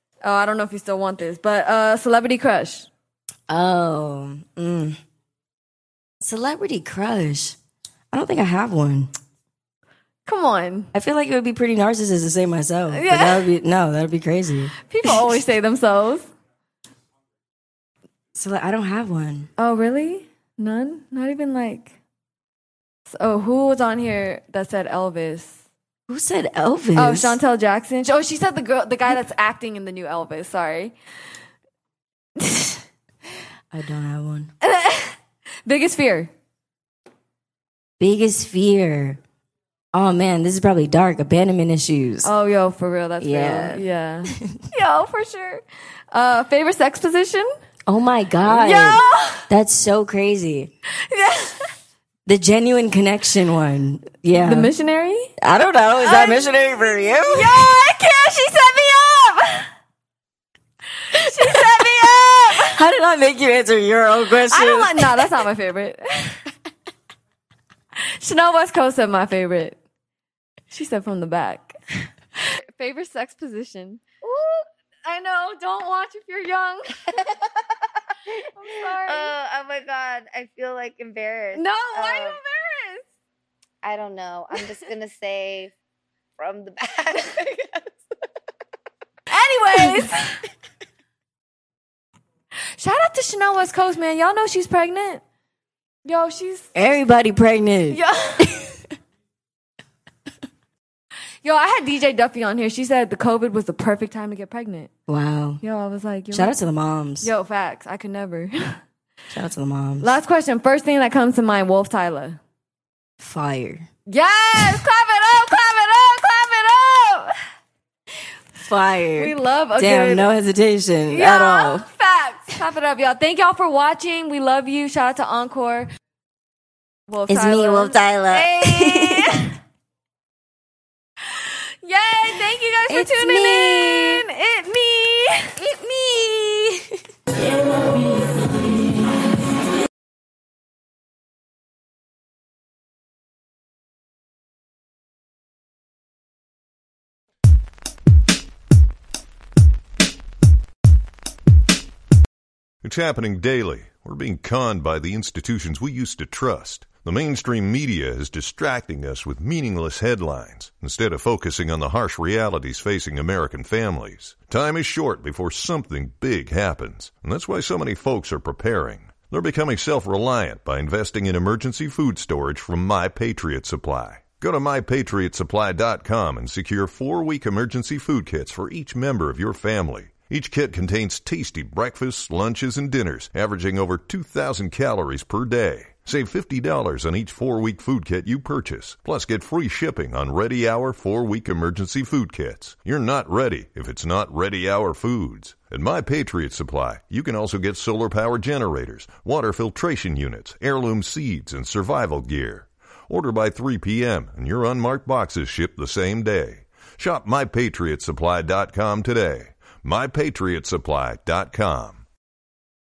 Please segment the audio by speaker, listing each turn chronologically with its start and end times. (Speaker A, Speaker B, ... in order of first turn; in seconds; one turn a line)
Speaker A: 0.2-2.9
Speaker B: 3.5-5.0
Speaker B: 6.2-7.6
Speaker B: 8.1-9.1
Speaker A: 10.2-10.9
Speaker B: 10.9-15.1
Speaker A: 12.9-13.4
Speaker A: 14.9-16.3
Speaker B: 18.3-19.5
Speaker A: 19.6-21.9
Speaker A: 23.1-25.6
Speaker B: 26.1-27.4
Speaker A: 26.9-30.9
Speaker A: 32.4-32.8
Speaker B: 33.7-34.5
Speaker A: 34.6-35.1
Speaker A: 35.6-36.3
Speaker B: 38.0-39.2
Speaker B: 39.9-42.3
Speaker A: 42.2-47.5
Speaker B: 43.2-44.6
Speaker B: 47.9-50.7
Speaker A: 48.5-49.4
Speaker A: 50.9-51.7
Speaker B: 52.2-54.7
Speaker A: 54.3-55.3
Speaker B: 55.4-57.8
Speaker A: 56.0-59.7
Speaker A: 61.1-62.8
Speaker B: 61.4-65.3
Speaker A: 64.5-66.4
Speaker A: 68.2-69.8
Speaker A: 70.7-77.2
Speaker A: 78.5-79.3
Speaker C: 78.9-82.4
Speaker A: 81.5-83.0
Speaker C: 83.8-85.7
Speaker C: 86.4-87.8
Speaker A: 89.3-90.4
Speaker A: 92.8-95.2
Speaker A: 96.0-96.7
Speaker B: 96.7-98.8
Speaker A: 97.9-98.4
Speaker A: 101.4-104.9
Speaker B: 105.1-105.6
Speaker A: 105.6-106.5
Speaker B: 106.3-107.3
Speaker A: 107.2-108.8
Speaker B: 109.3-110.2
Speaker A: 110.0-112.4
Speaker B: 113.2-113.9
Speaker A: 114.1-117.3
Speaker B: 118.5-121.8
Speaker A: 119.2-120.3
Speaker A: 121.1-125.9
Speaker A: 127.1-129.5
Speaker B: 127.3-129.4
Speaker A: 131.3-135.5
Speaker B: 132.9-134.2
Speaker B: 135.6-137.0
Speaker D: 152.8-212.0